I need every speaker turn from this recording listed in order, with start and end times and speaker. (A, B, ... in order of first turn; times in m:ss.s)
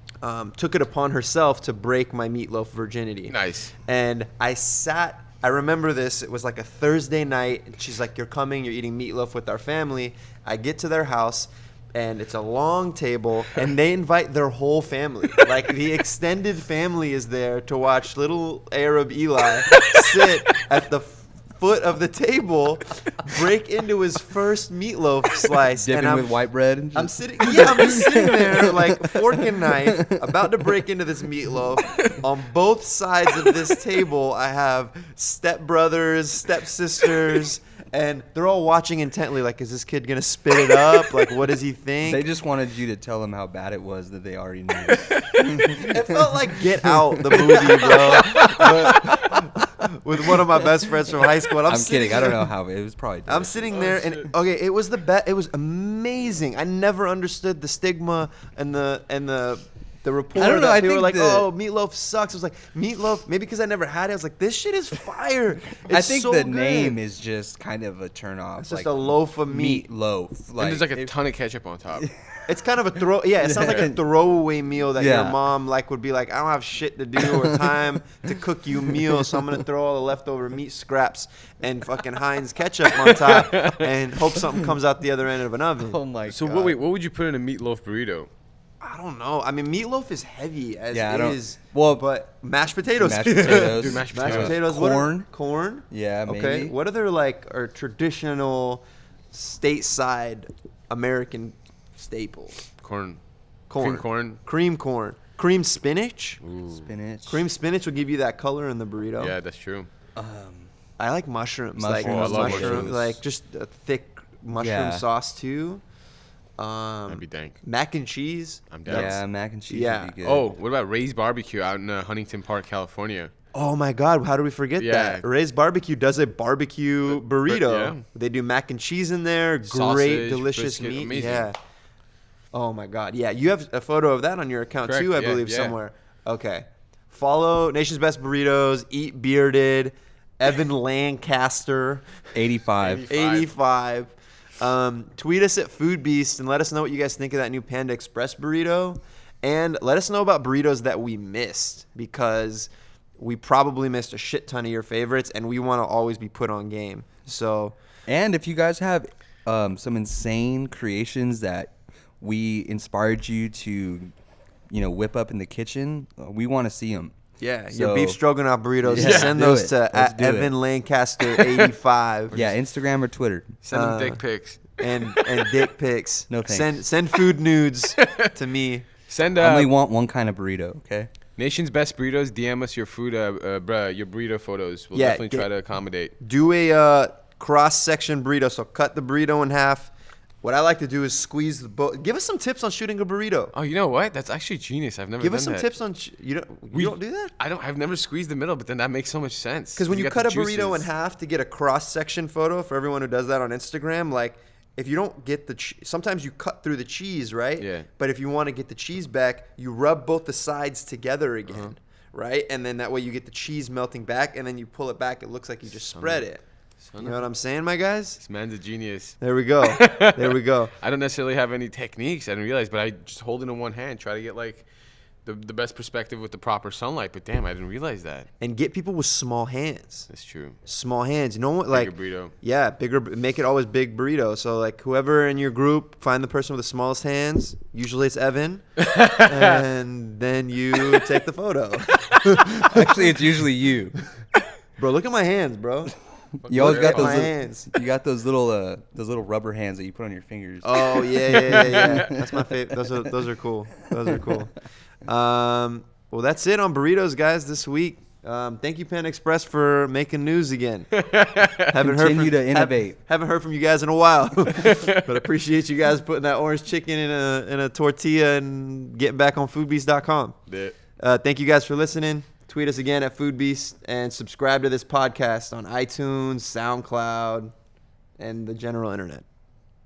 0:00.2-0:26.3 A
0:03.3-0:03.7 B
0:25.8-0:29.1 C
0:26.9-0:42.2 A
0:42.0-0:46.3 C
0:44.9-0:45.4 B
0:45.4-0:52.5 A
0:47.1-0:49.4 C
0:48.4-0:48.7 B
0:51.7-0:53.8 C
0:53.2-1:06.9 A
0:53.7-0:54.3 B
1:00.4-1:01.5 C
1:05.9-1:11.1 C
1:08.6-1:09.8 A
1:10.6-1:12.1 B
1:12.0-1:12.5 C
1:12.5-1:26.8 A
1:13.4-1:14.0 C
1:15.0-1:15.4 C
1:17.2-1:17.7 C
1:18.9-1:19.6 C
1:23.0-1:23.9 B
1:25.8-1:26.4 C
1:26.3-1:28.3 B
1:28.8-1:42.7 A
1:30.9-1:32.0 C
1:33.0-1:35.3 C
1:33.4-1:35.0 B
1:35.9-1:36.7 C
1:42.8-1:43.2 B
1:43.7-1:46.4 A
1:43.8-1:44.4 B
1:46.4-1:46.9 B
1:46.7-1:47.4 C
1:47.2-1:49.3 A
1:49.2-1:49.9 B
1:50.2-1:50.7 C
1:51.0-1:55.8 A
1:51.8-1:53.2 C
1:52.0-1:53.0 B
1:54.6-1:55.0 C
1:56.6-2:00.2 A
1:57.1-1:57.6 B
1:58.7-1:59.1 B
1:58.9-2:00.5 C
2:00.2-2:03.3 B
2:03.5-2:11.6 A
2:04.8-2:05.2 B
2:07.0-2:08.0 B
2:09.7-2:11.5 B
2:12.5-2:22.1 A
2:14.9-2:15.7 B
2:22.3-2:23.1 C
2:22.8-2:23.5 B
2:23.1-2:37.7 A
2:38.1-2:44.1 C
2:44.7-2:47.2 C
2:47.4-2:52.4 A
2:47.7-2:48.2 C
2:48.8-2:50.5 C
2:49.0-2:49.4 B
2:51.4-2:51.7 B
2:52.3-2:53.5 C
2:53.6-2:55.5 B
2:53.7-2:58.9 A
2:56.3-2:56.8 C
2:58.0-2:58.3 B
2:59.0-2:59.7 B
2:59.4-3:01.1 C
3:01.4-3:06.1 B
3:04.9-3:05.4 A
3:06.2-3:13.5 A
3:13.5-3:15.7 B
3:15.2-3:17.3 A
3:16.7-3:20.9 B
3:19.8-3:36.4 A
3:27.6-3:27.9 B
3:35.9-3:36.3 B
3:36.8-3:37.3 B
3:37.0-3:38.2 A
3:38.2-3:44.7 B
3:39.2-3:40.7 A
3:45.2-3:48.3 B
3:48.4-3:50.1 A
3:50.1-3:50.6 B
3:50.6-4:03.0 A
3:51.7-3:52.3 B
3:58.8-3:59.6 B
4:02.6-4:03.9 C
4:04.8-4:05.9 A
4:06.4-4:07.3 B
4:06.4-4:12.7 C
4:06.5-4:07.7 A
4:10.6-4:21.0 A
4:11.5-4:12.0 B
4:21.0-4:21.7 B
4:21.6-4:30.4 A
4:21.8-4:23.0 C
4:24.6-4:25.1 B
4:30.5-4:30.7 B
4:30.9-4:37.5 A
4:38.2-4:39.2 A